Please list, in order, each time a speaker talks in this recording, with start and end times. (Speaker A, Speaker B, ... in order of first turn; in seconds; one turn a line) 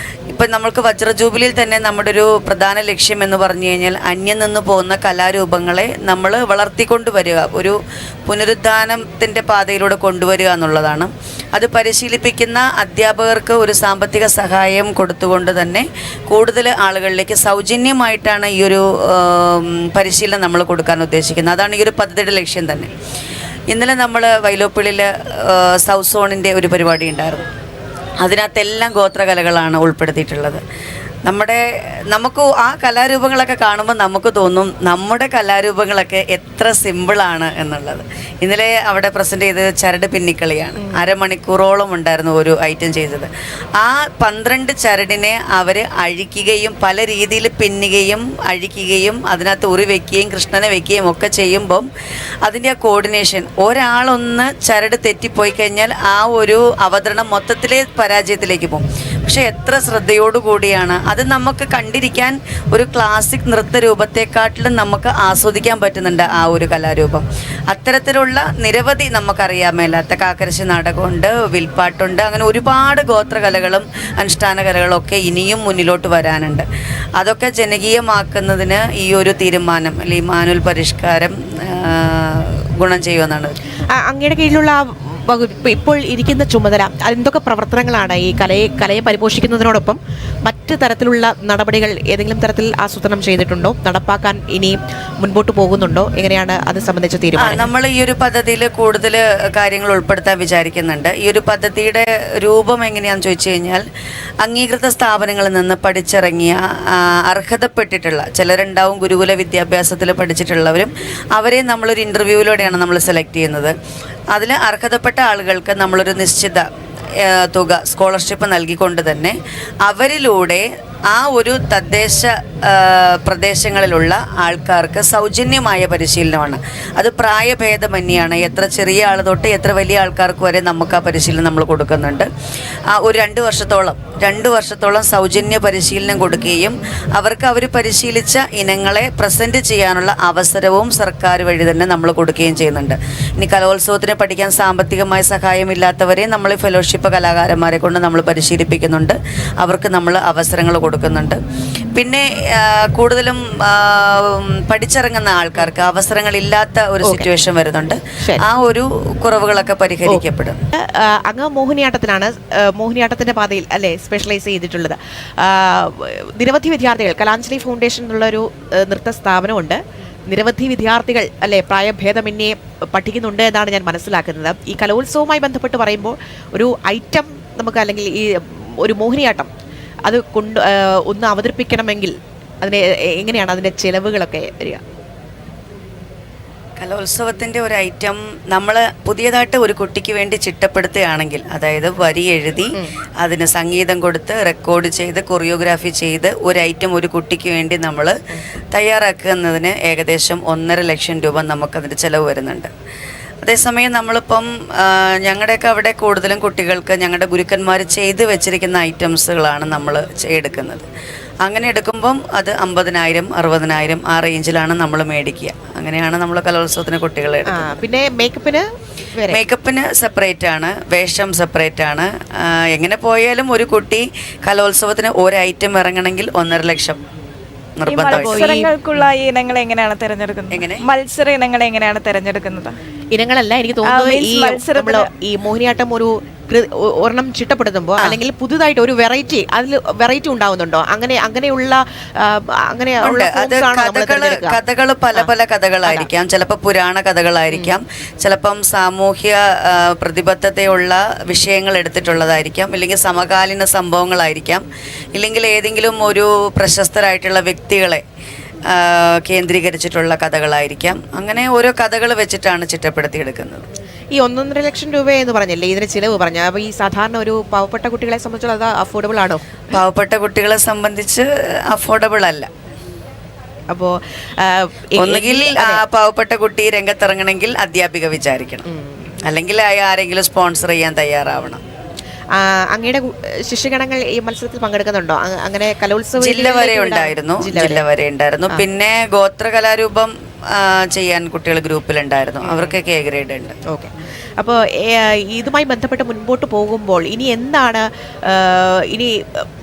Speaker A: 0.3-22.9
Speaker A: 23.7-27.4
Speaker A: 28.2-30.6
Speaker A: 31.2-51.9
Speaker A: 52.4-76.6
Speaker A: 77.2-83.6
Speaker B: 83.9-97.7
Speaker A: 97.4-103.8
Speaker A: 104.4-113.7
Speaker A: 114.3-116.6
Speaker A: 117.2-132.3
Speaker A: 132.9-151.4
Speaker A: 151.9-160.6
Speaker B: 160.7-179.5
Speaker B: 180.1-184.8
Speaker A: 186.8-198.1
Speaker A: 198.7-202.7
Speaker A: 203.4-210.8
Speaker A: 211.4-217.8
Speaker B: 217.5-219.4
Speaker A: 219.3-227.0
Speaker A: 227.8-228.5
Speaker C: 227.9-232.7
Speaker B: 228.1-228.7
Speaker A: 230.5-230.8
Speaker B: 233.1-244.6
Speaker C: 233.8-235.1
Speaker A: 243.0-254.6
Speaker A: 255.2-258.0
Speaker A: 258.7-263.7
Speaker B: 264.1-269.6
Speaker A: 269.7-272.5
Speaker B: 273.7-275.8
Speaker A: 275.0-278.6
Speaker B: 278.7-279.0
Speaker A: 279.2-281.6
Speaker B: 282.3-287.8
Speaker A: 286.2-293.5
Speaker B: 292.4-292.7
Speaker B: 293.7-299.5